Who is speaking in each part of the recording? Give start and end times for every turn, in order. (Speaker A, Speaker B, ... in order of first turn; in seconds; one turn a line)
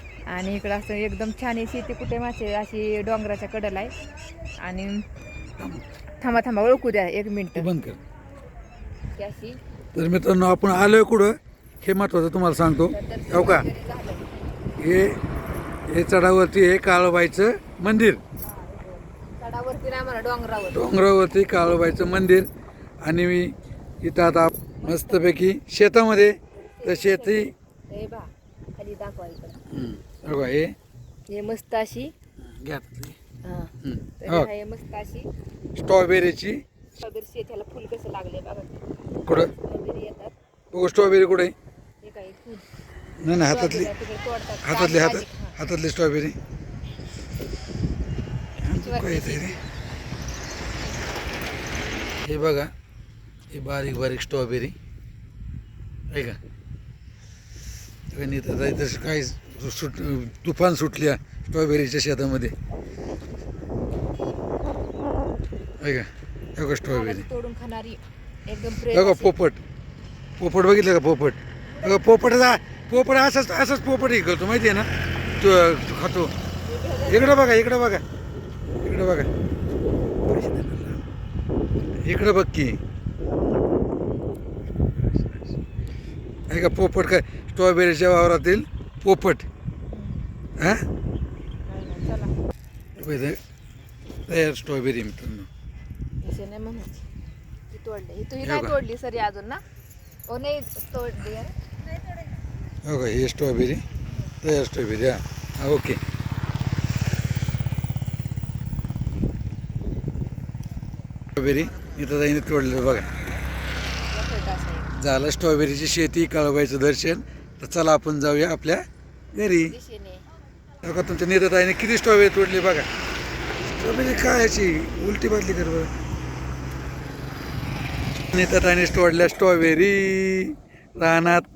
Speaker A: 0.3-3.9
Speaker A: 4.6-5.0
Speaker B: 5.6-5.8
Speaker A: 6.2-7.7
Speaker B: 7.5-8.0
Speaker A: 9.1-9.6
Speaker B: 9.9-13.7
Speaker A: 12.9-14.4
Speaker B: 14.8-15.2
Speaker B: 15.9-18.2
Speaker A: 18.4-20.9
Speaker B: 20.7-22.5
Speaker B: 23.0-27.5
Speaker A: 24.8-25.3
Speaker A: 26.5-29.6
Speaker B: 29.7-30.8
Speaker A: 31.3-32.1
Speaker B: 32.4-33.2
Speaker A: 33.4-35.3
Speaker B: 33.8-34.5
Speaker B: 35.8-36.6
Speaker A: 37.0-40.3
Speaker B: 40.7-41.5
Speaker A: 42.0-42.6
Speaker B: 43.2-43.9
Speaker A: 43.3-45.6
Speaker B: 44.6-46.4
Speaker B: 48.6-49.6
Speaker A: 48.7-49.6
Speaker B: 52.2-52.7
Speaker B: 53.5-54.7
Speaker B: 56.1-56.4
Speaker B: 58.1-62.5
Speaker B: 65.8-67.2
Speaker A: 66.8-69.3
Speaker B: 68.9-69.6
Speaker B: 70.4-74.9
Speaker B: 75.4-76.3
Speaker A: 76.6-77.6
Speaker B: 77.1-78.0
Speaker B: 78.8-79.3
Speaker B: 80.2-81.0
Speaker B: 82.0-82.8
Speaker B: 84.9-85.5
Speaker B: 86.5-89.5
Speaker A: 89.9-90.2
Speaker B: 90.6-90.8
Speaker A: 91.7-92.3
Speaker B: 93.0-93.4
Speaker B: 94.3-95.5
Speaker A: 96.2-97.0
Speaker A: 97.7-99.6
Speaker B: 98.4-98.7
Speaker A: 100.3-101.5
Speaker B: 102.8-103.8
Speaker B: 104.4-106.0
Speaker B: 111.3-113.1
Speaker A: 114.1-114.9
Speaker B: 115.0-119.7
Speaker A: 119.6-120.2
Speaker B: 120.8-122.9
Speaker B: 123.7-125.9
Speaker B: 128.3-131.4